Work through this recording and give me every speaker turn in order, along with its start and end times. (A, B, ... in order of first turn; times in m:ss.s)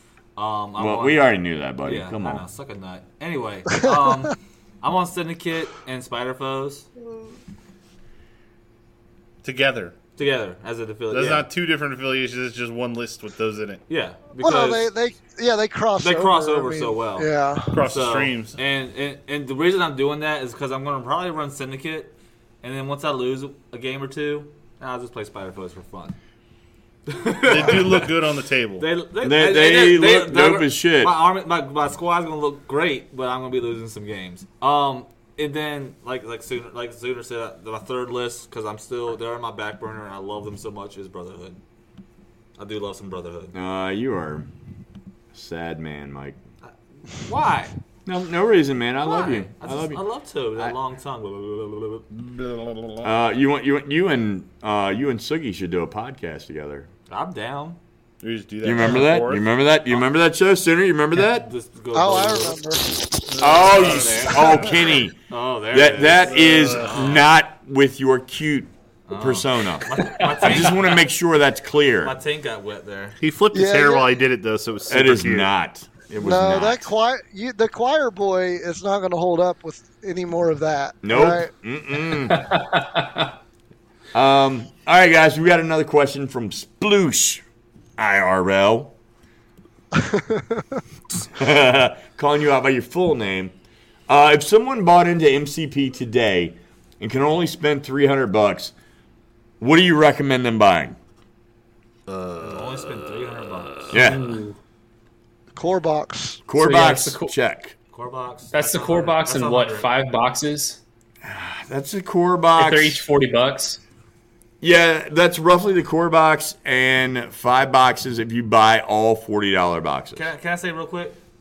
0:00.4-0:01.2 A
0:00.8-0:02.4 B
0:01.8-0:06.9 A
0:09.4-0:09.9 C
0:10.2-0:11.5 A
0:11.1-0:13.8 C
0:13.9-0:14.9 A
0:14.4-0:17.8 D
0:16.0-0:17.3 A
0:17.7-0:18.6 C
0:17.8-0:26.2 A
0:27.1-0:28.1 A
0:27.4-0:28.8 C
0:28.8-0:41.6 A
0:29.2-0:31.1 B
0:42.6-0:43.5 A
0:43.5-0:44.5 B
0:45.3-0:46.4 B
0:46.6-0:47.8 A
0:48.0-0:50.0 B
0:49.0-0:52.0 A
0:52.2-0:53.0 C
0:53.0-0:56.9 B
0:57.1-0:57.8 A
0:58.2-0:59.4 C
0:58.6-1:01.5 B
1:01.3-1:02.6 A
1:01.9-1:03.6 D
1:03.3-1:04.6 C
1:03.4-1:05.2 B
1:03.7-1:04.5 A
1:05.3-1:07.3 A
1:05.7-1:12.1 B
1:06.1-1:07.0 C
1:09.1-1:11.0 A
1:12.0-1:13.2 A
1:13.2-1:15.5 C
1:13.5-1:14.2 D
1:14.9-1:16.8 B
1:16.2-1:21.5 D
1:21.0-1:22.5 B
1:22.3-1:23.3 E
1:24.1-1:27.4 B
1:28.0-1:28.9 B
1:29.9-1:30.8 D
1:31.3-1:33.5 B
1:34.1-1:38.7 B
1:39.6-1:41.0 B
1:42.1-1:42.5 C
1:42.4-1:44.0 A
1:43.9-1:44.2 B
1:44.0-1:44.6 E
1:45.5-1:46.4 D
1:46.4-1:47.7 B
1:46.6-1:47.3 E
1:47.9-1:49.9 A
1:48.5-1:50.8 E
1:51.2-1:53.0 B
1:52.6-1:53.8 E
1:54.6-2:00.2 B
2:00.1-2:01.2 A